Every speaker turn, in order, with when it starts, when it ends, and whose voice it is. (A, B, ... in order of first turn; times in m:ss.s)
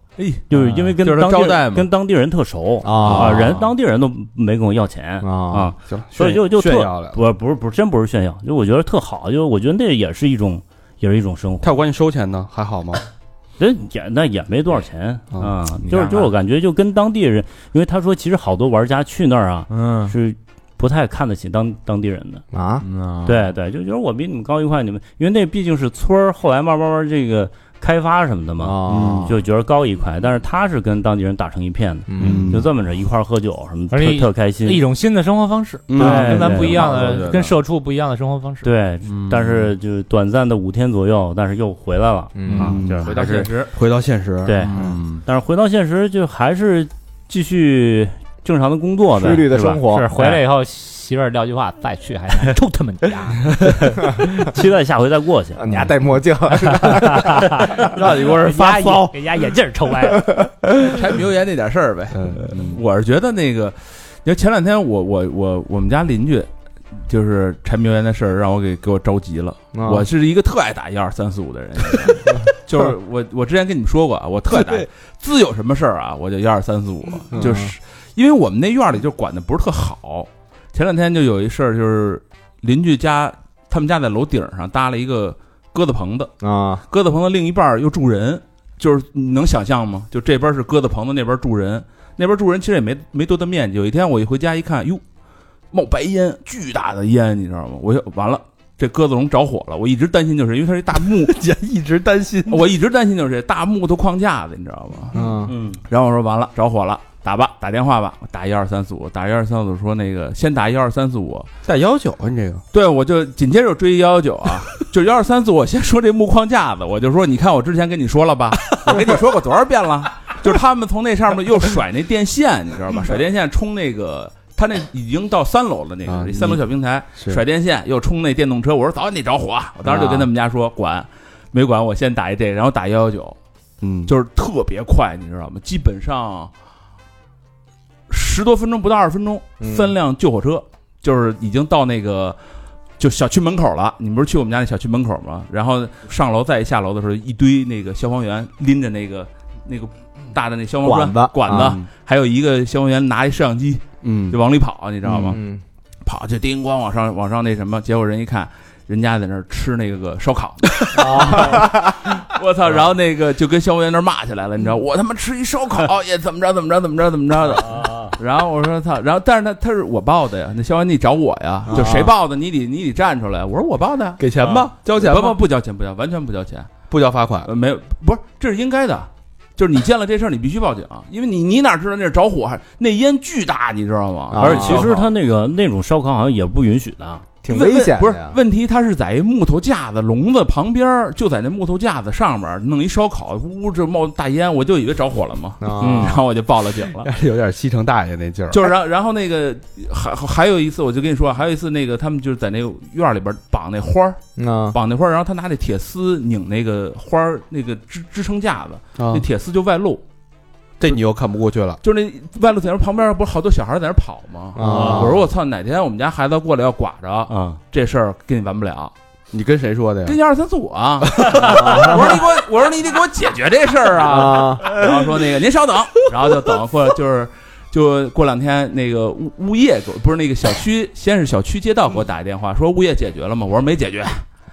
0:00.2-0:01.9 A
0:00.5-0:11.7 B
0:02.8-0:03.5 C
0:03.0-0:03.7 A
0:05.2-0:05.8 C
0:05.9-0:07.2 D
0:11.6-0:13.0 D
0:13.6-0:22.4 B
0:15.8-0:16.3 A
0:19.7-0:20.1 A
0:22.5-0:22.9 C
0:22.8-0:23.5 A
0:23.2-0:34.8 B
0:28.6-0:29.3 C
0:28.9-0:29.3 D
0:32.1-0:32.5 C
0:32.2-0:32.6 D
0:33.9-0:38.7 E
0:35.9-0:37.6 A
0:36.0-0:36.9 B
0:38.6-0:43.5 B
0:39.0-0:39.7 A
0:42.4-0:42.7 C
0:42.5-0:43.7 A
0:42.6-0:43.2 D
0:43.7-0:44.6 D
0:44.5-0:50.4 B
0:44.6-0:45.2 A
0:49.1-0:50.2 C
0:49.9-0:53.5 E
0:53.6-0:55.9 B
0:55.6-0:57.9 C
0:56.8-1:00.4 E
0:57.8-0:59.1 A
0:58.2-0:58.4 D
1:00.1-1:00.7 C
1:00.8-1:26.3 A
1:02.1-1:02.8 D
1:09.7-1:10.1 C
1:17.3-1:17.8 C
1:26.4-1:26.8 C
1:26.9-1:35.0 A
1:35.7-1:41.4 A
1:41.0-1:42.6 D
1:42.5-1:45.2 A
1:45.1-1:45.5 C
1:45.5-1:45.8 B
1:45.9-1:51.5 A
1:51.6-1:52.6 D
1:52.7-2:13.4 A
2:06.0-2:06.6 D
2:07.1-2:07.4 D
2:09.8-2:10.3 D
2:13.8-2:14.1 D
2:14.1-2:16.5 A
2:18.1-2:22.4 A
2:19.6-2:20.0 C
2:23.0-2:35.4 A
2:30.8-2:31.8 C
2:31.5-2:31.9 D
2:34.0-2:34.4 D
2:35.0-2:35.3 D
2:35.2-2:35.6 C
2:36.0-2:56.7 A
2:41.0-2:42.0 C
2:51.7-2:52.1 D
2:51.7-2:52.1 C
2:54.2-2:55.4 D
2:56.9-2:57.5 D
2:57.4-3:05.1 A
3:04.3-3:04.9 C
3:04.4-3:07.3 B
3:07.4-3:08.4 C
3:07.5-3:17.1 A
3:15.6-3:16.2 C
3:15.8-3:16.2 B
3:17.0-3:18.7 D
3:18.5-3:24.2 A
3:24.4-3:24.8 C
3:24.7-3:30.0 A
3:29.0-3:29.2 D
3:30.8-3:31.8 D
3:31.8-3:38.9 A
3:34.6-3:35.2 C
3:34.7-3:35.0 B
3:37.3-3:37.6 B
3:39.3-3:40.2 D
3:40.0-3:54.2 A
3:41.2-3:41.9 D
3:41.5-3:42.1 C
3:44.0-3:44.7 C